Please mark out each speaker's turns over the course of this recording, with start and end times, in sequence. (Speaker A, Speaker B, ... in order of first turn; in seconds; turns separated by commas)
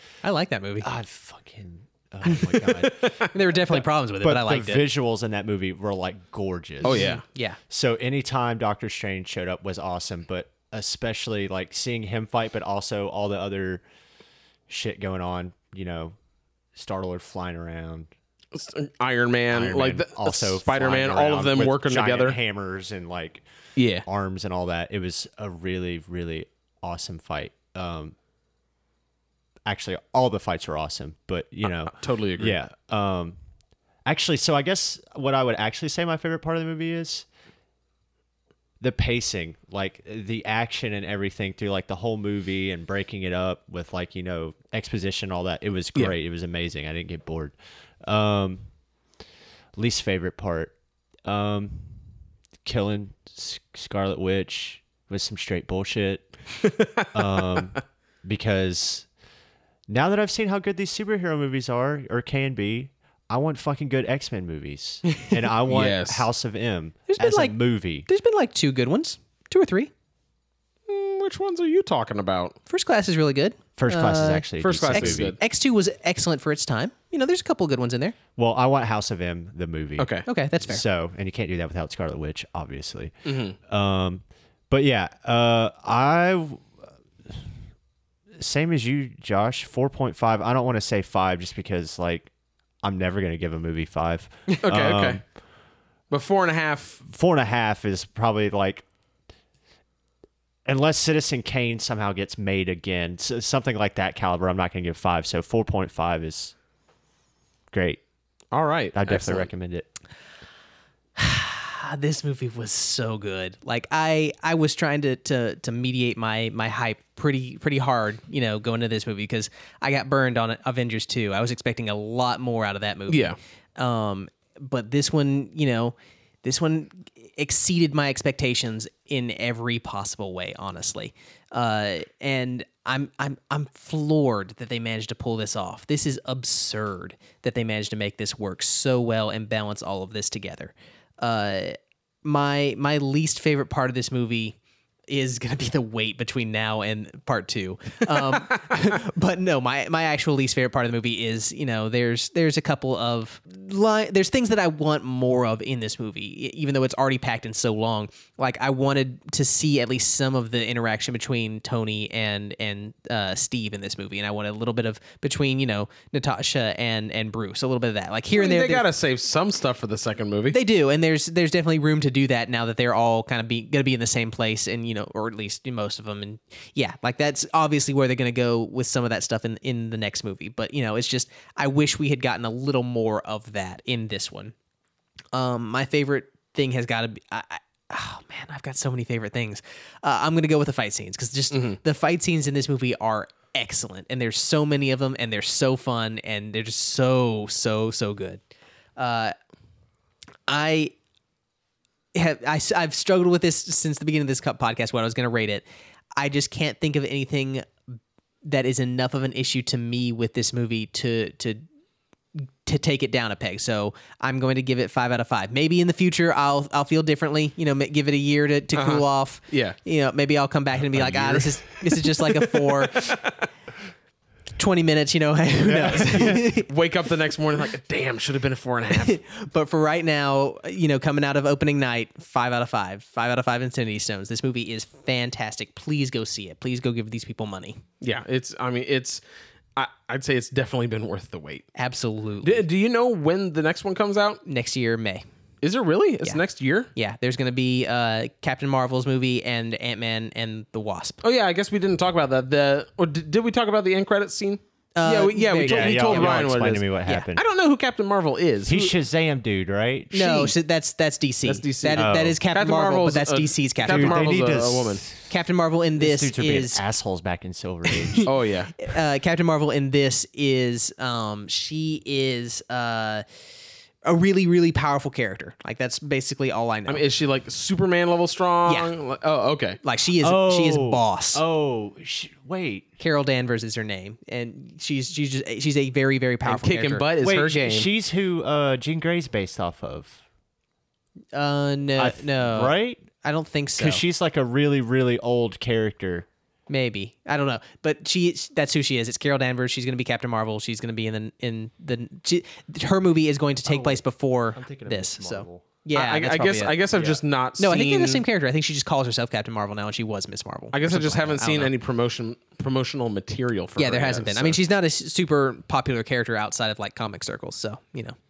Speaker A: 0.2-0.9, Speaker B: 0.8-7.1, Speaker A: 2.2-4.9, Speaker A: 6.8-7.6, Speaker C: 6.8-7.2, Speaker B: 7.7-13.8, Speaker B: 14.7-16.1, Speaker B: 16.7-18.1, Speaker C: 18.5-22.4, Speaker B: 19.5-23.4, Speaker C: 23.8-24.0, Speaker B: 24.0-28.1, Speaker B: 29.6-33.4, Speaker C: 31.9-32.6, Speaker B: 34.0-37.2, Speaker B: 38.8-48.6, Speaker B: 49.8-50.7, Speaker B: 51.2-51.9, Speaker B: 52.6-56.3, Speaker C: 56.6-57.8, Speaker B: 57.1-59.1, Speaker B: 59.9-68.0, Speaker C: 65.6-66.3, Speaker A: 67.1-69.9, Speaker C: 70.9-72.5, Speaker A: 72.7-78.1, Speaker B: 73.8-75.3, Speaker C: 74.6-75.4, Speaker B: 78.3-83.1, Speaker C: 80.0-80.3, Speaker A: 80.3-80.8, Speaker C: 83.2-83.6, Speaker B: 83.7-86.7, Speaker B: 88.4-92.3, Speaker B: 92.8-95.2, Speaker C: 94.6-95.2, Speaker C: 96.1-97.0, Speaker B: 97.0-98.8, Speaker B: 100.7-106.5, Speaker B: 107.7-108.0, Speaker C: 108.5-109.5, Speaker B: 108.9-109.9, Speaker A: 111.2-144.6, Speaker C: 123.1-123.4, Speaker A: 145.1-168.8, Speaker C: 168.3-170.6, Speaker A: 170.5-184.5, Speaker A: 185.3-198.4, Speaker C: 191.5-191.8, Speaker A: 199.0-199.3, Speaker A: 200.5-200.9, Speaker A: 202.1-205.6, Speaker A: 206.2-207.8, Speaker A: 208.4-211.6, Speaker A: 212.3-223.2, Speaker C: 218.7-219.8, Speaker B: 220.8-221.9, Speaker C: 222.9-223.4, Speaker A: 224.6-226.7, Speaker B: 225.6-226.5, Speaker C: 226.2-229.2, Speaker A: 229.0-237.8, Speaker C: 238.0-239.2, Speaker C: 239.8-241.7, Speaker A: 241.8-242.6, Speaker C: 242.4-244.4, Speaker A: 244.4-245.2, Speaker C: 245.6-246.9, Speaker A: 246.9-251.2, Speaker C: 251.2-258.9, Speaker A: 254.9-256.5, Speaker B: 255.6-257.4, Speaker B: 258.7-260.5, Speaker A: 260.1-264.3, Speaker C: 261.4-265.0, Speaker B: 261.9-262.4, Speaker B: 263.8-265.3, Speaker A: 265.3-266.8, Speaker B: 266.0-268.3, Speaker A: 267.9-273.2, Speaker C: 268.2-268.7, Speaker A: 274.0-277.0, Speaker C: 276.9-279.8, Speaker A: 278.6-278.9, Speaker A: 279.8-281.4, Speaker B: 280.2-282.9, Speaker A: 283.0-287.1, Speaker C: 286.4-287.9, Speaker B: 287.2-290.2, Speaker A: 291.3-294.0, Speaker B: 292.0-293.0, Speaker B: 293.8-296.3, Speaker A: 296.7-306.8, Speaker B: 303.7-305.6, Speaker C: 305.9-308.2, Speaker B: 306.9-307.2, Speaker A: 307.6-311.7, Speaker C: 310.7-314.6, Speaker A: 313.8-318.1